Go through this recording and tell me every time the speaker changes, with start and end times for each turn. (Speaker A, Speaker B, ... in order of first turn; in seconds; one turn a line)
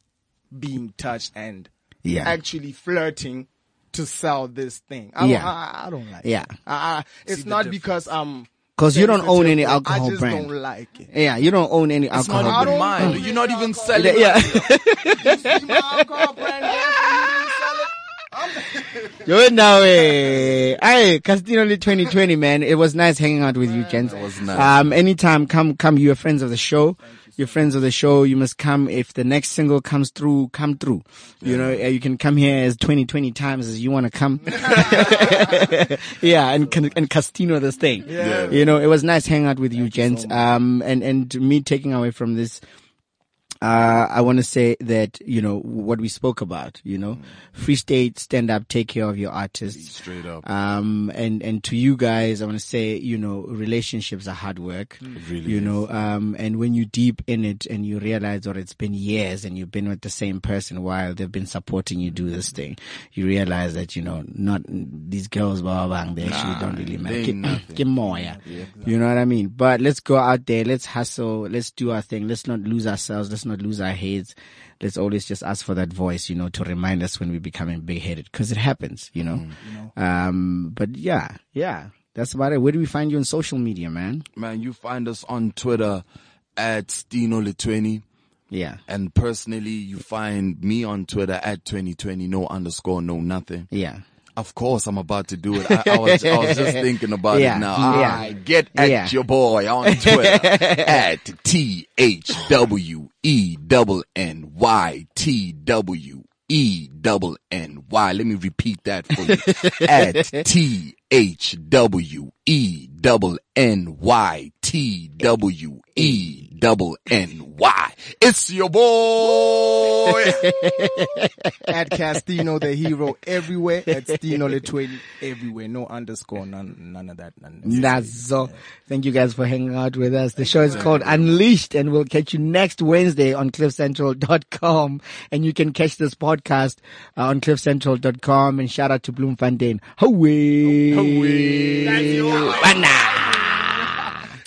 Speaker A: 0.5-11.1
Speaker B: 2.0-2.4
Speaker B: 5.2-5.5
Speaker B: 6.2-6.5
Speaker C: 7.3-8.1
Speaker B: 8.8-10.5
Speaker B: 11.1-13.2
Speaker C: 12.1-14.7
Speaker A: 12.3-20.7
Speaker B: 13.9-17.8
Speaker B: 19.2-42.6
Speaker A: 23.6-24.6
Speaker C: 24.0-24.8
Speaker A: 27.0-27.8
Speaker C: 31.4-31.9
Speaker A: 34.5-37.0
Speaker A: 38.1-38.8
Speaker C: 38.2-38.6
Speaker A: 39.8-40.5
Speaker B: 43.6-84.3
Speaker C: 49.7-50.5
Speaker C: 55.1-55.9
Speaker C: 66.2-68.6
Speaker A: 68.1-69.0
Speaker C: 79.3-79.6
Speaker A: 79.6-79.9
Speaker C: 84.4-86.0
Speaker C: 86.6-88.0
Speaker B: 88.5-88.8
Speaker C: 88.9-93.7
Speaker B: 93.7-94.0
Speaker C: 94.4-120.7
Speaker B: 95.5-99.2
Speaker B: 99.8-101.1
Speaker B: 109.2-110.5
Speaker B: 120.1-121.7
Speaker A: 121.7-128.6
Speaker B: 123.9-124.6
Speaker B: 127.6-144.2
Speaker A: 130.4-131.2
Speaker C: 130.7-131.2
Speaker C: 140.7-143.1
Speaker A: 141.9-142.7